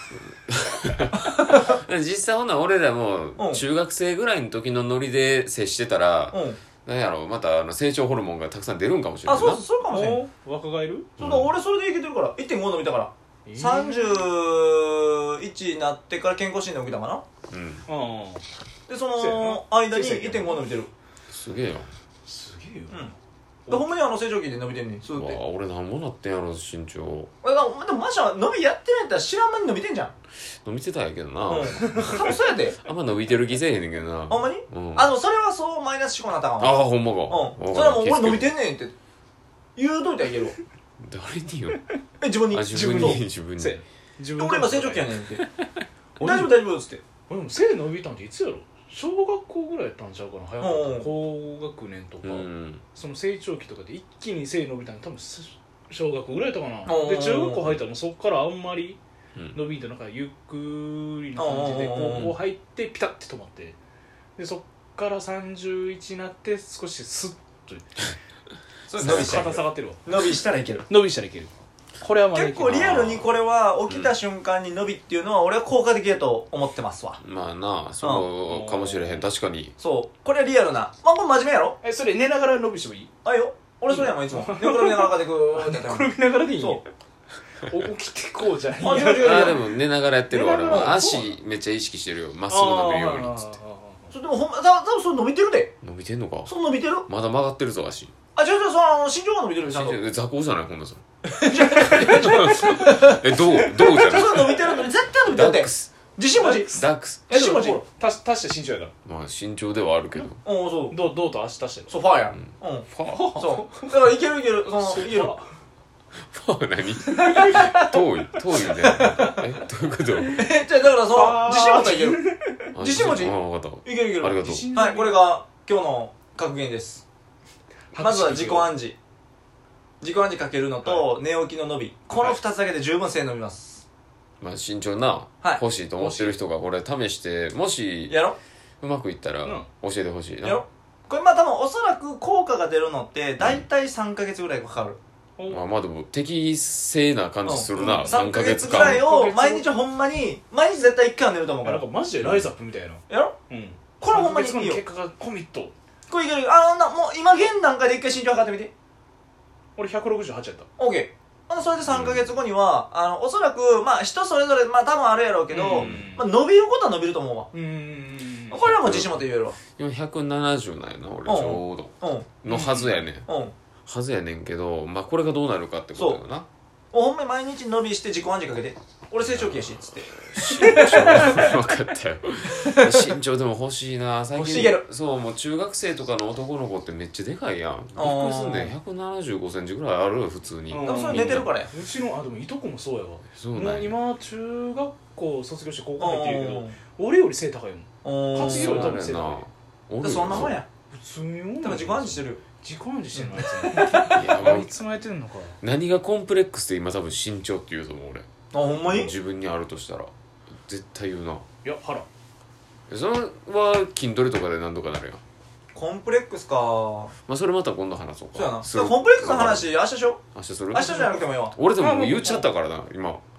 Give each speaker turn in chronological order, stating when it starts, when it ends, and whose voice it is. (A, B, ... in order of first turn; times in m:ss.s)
0:00.5-0:09.6 A
0:01.2-0:01.8 B
0:03.4-0:03.6 B
0:06.3-0:06.6 B
0:09.2-0:10.3 B
0:09.8-0:11.2 C
0:11.2-0:11.5 A
0:11.2-0:17.2 B
0:13.5-0:14.2 C
0:17.5-0:17.8 A
0:17.9-0:18.4 C
0:18.9-0:20.9 B
0:19.2-0:20.6 C
0:21.3-0:21.9 A
0:22.3-0:23.1 C
0:23.7-0:25.4 B
0:25.1-0:27.3 A
0:27.4-0:30.1 B
0:30.6-0:35.1 A
0:31.5-0:32.8 B
0:34.3-0:38.9 B
0:36.6-0:38.5 A
0:39.8-0:40.6 B
0:41.0-0:41.8 A
0:42.2-0:43.2 B
0:42.5-0:43.8 A
0:42.7-0:45.1 C
0:44.4-0:45.4 B
0:46.2-0:46.7 C
0:46.2-0:47.0 B
0:47.3-0:59.0 C
0:50.6-0:51.1 B
0:52.2-0:52.8 A
0:56.9-0:57.7 B
0:59.5-1:03.8 C
1:01.4-1:02.4 B
1:04.4-1:08.1 C
1:08.9-1:10.9 B
1:09.0-1:09.5 A
1:09.0-1:10.1 C
1:10.9-1:13.2 C
1:12.3-1:17.2 B
1:12.7-1:13.2 A
1:13.9-1:14.1 A
1:17.2-1:19.7 A
1:18.0-1:18.3 B
1:18.4-1:19.2 C
1:19.8-1:21.8 B
1:21.8-1:23.1 C
1:23.2-1:26.8 B
1:23.9-1:26.9 C
1:27.6-1:29.6 C
1:28.8-1:29.6 B
1:29.2-1:33.6 A
1:30.3-1:31.3 C
1:32.5-1:34.1 C
1:34.1-1:35.7 B
1:35.8-1:36.5 A
1:36.5-1:37.1 B
1:37.1-1:38.1 A
1:38.4-1:40.0 B
1:39.7-1:41.0 A
1:41.4-1:46.7 B
1:41.8-1:43.8 C
1:41.9-1:44.6 A
1:45.2-1:45.9 A
1:46.4-1:46.7 C
1:46.7-1:47.2 A
1:47.3-1:47.8 B
1:47.3-1:48.9 C
1:49.1-1:50.4 A
1:50.4-1:51.0 B
1:50.9-1:51.9 C
1:51.9-1:55.4 B
1:52.3-1:53.4 A
1:53.1-1:54.0 C
1:54.8-1:55.4 C
1:56.2-2:00.4 A
1:57.1-1:58.0 B
1:58.6-1:59.4 B
2:00.4-2:02.2 B
2:01.1-2:02.7 C
2:02.8-2:04.7 A
2:02.8-2:07.1 B
2:04.4-2:05.2 C
2:07.9-2:08.7 C
2:08.0-2:09.0 B
2:10.0-2:13.8 B
2:10.8-2:11.1 C
2:14.4-2:18.2 A
2:16.0-2:16.4 C
2:18.1-2:18.4 B
2:18.8-2:20.6 A
2:20.4-2:25.0 B
2:23.4-2:23.6 A
2:25.5-2:29.0 A
2:27.5-2:31.9 B
2:27.7-2:29.7 C
2:31.6-2:35.7 C
2:32.2-2:32.5 A
2:33.1-2:33.3 B
2:34.0-2:34.8 B
2:36.1-2:38.7 B
2:39.8-2:40.7 C
2:40.8-2:47.5 B
2:41.9-2:42.3 A
2:45.5-2:46.3 C
2:45.8-2:46.1 A
2:47.5-2:48.7 C
2:48.5-2:49.6 B
2:48.7-2:49.2 A
2:49.8-2:53.3 A
2:51.2-2:52.4 B
2:52.5-2:53.0 C
2:53.2-2:53.5 B
2:53.9-2:56.5 A
2:56.0-2:56.2 B
2:56.9-3:01.6 B
2:59.2-3:11.5 A
3:02.6-3:03.0 B
3:04.4-3:04.8 B
3:04.4-3:04.8 C
3:08.0-3:08.8 B
3:10.7-3:19.4 C
3:10.8-3:11.7 B
3:13.4-3:14.0 A
3:16.0-3:16.8 B
3:18.0-3:19.0 B
3:18.3-3:20.6 A
3:20.0-3:20.7 B
3:20.9-3:25.6 C
3:21.6-3:22.4 B
3:23.2-3:24.2 B
3:24.1-3:24.7 A
3:25.6-3:28.3 A
3:28.5-3:29.1 B
3:28.9-3:30.1 A
3:30.6-3:31.4 A
3:31.6-3:32.1 C
3:32.9-3:35.2 A
3:35.7-3:37.1 B
3:37.3-3:39.7 A
3:38.3-3:40.2 B
3:40.4-3:43.2 A
3:40.7-3:41.6 B
3:41.8-3:42.5 C